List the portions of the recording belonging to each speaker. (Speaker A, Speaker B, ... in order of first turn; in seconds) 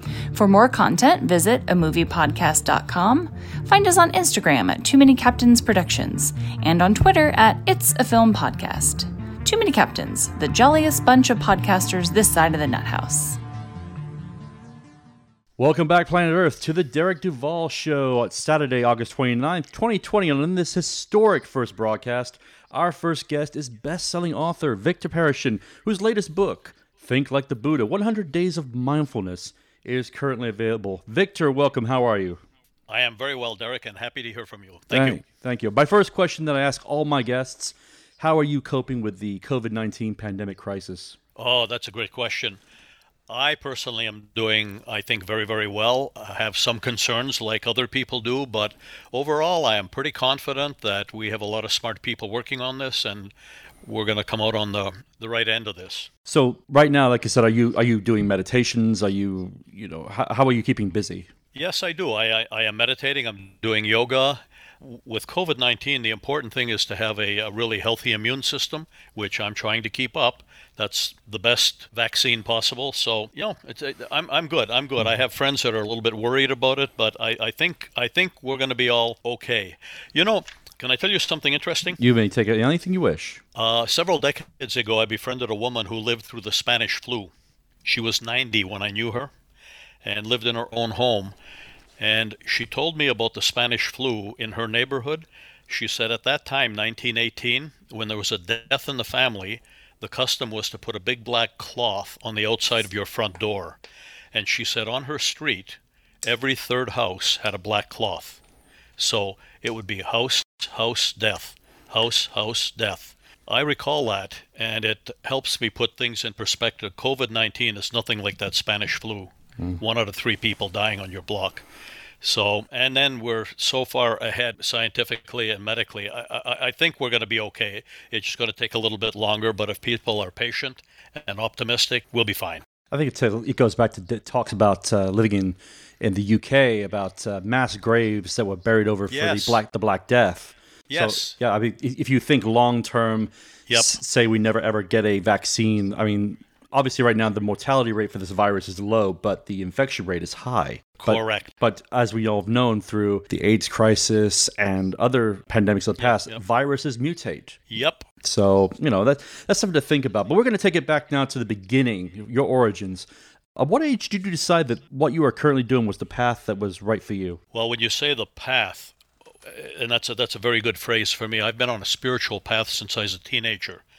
Speaker A: 0.3-13.4
Speaker B: 15.6-32.4, 34.9-41.2, 56.3-61.3, 82.0-83.4, 132.9-157.6, 158.2-167.4
Speaker C: 32.9-35.2, 41.4-42.6, 43.3-53.3, 53.8-56.1, 61.5-82.0, 83.5-87.3, 87.8-89.3, 90.0-91.3, 92.0-103.8, 104.3-108.4, 109.0-121.7, 122.2-132.6, 139.1-139.6, 140.9-141.4, 143.7-144.0, 151.0-151.5, 156.0-156.4, 157.7-158.1, 167.5-168.9, 169.4-173.8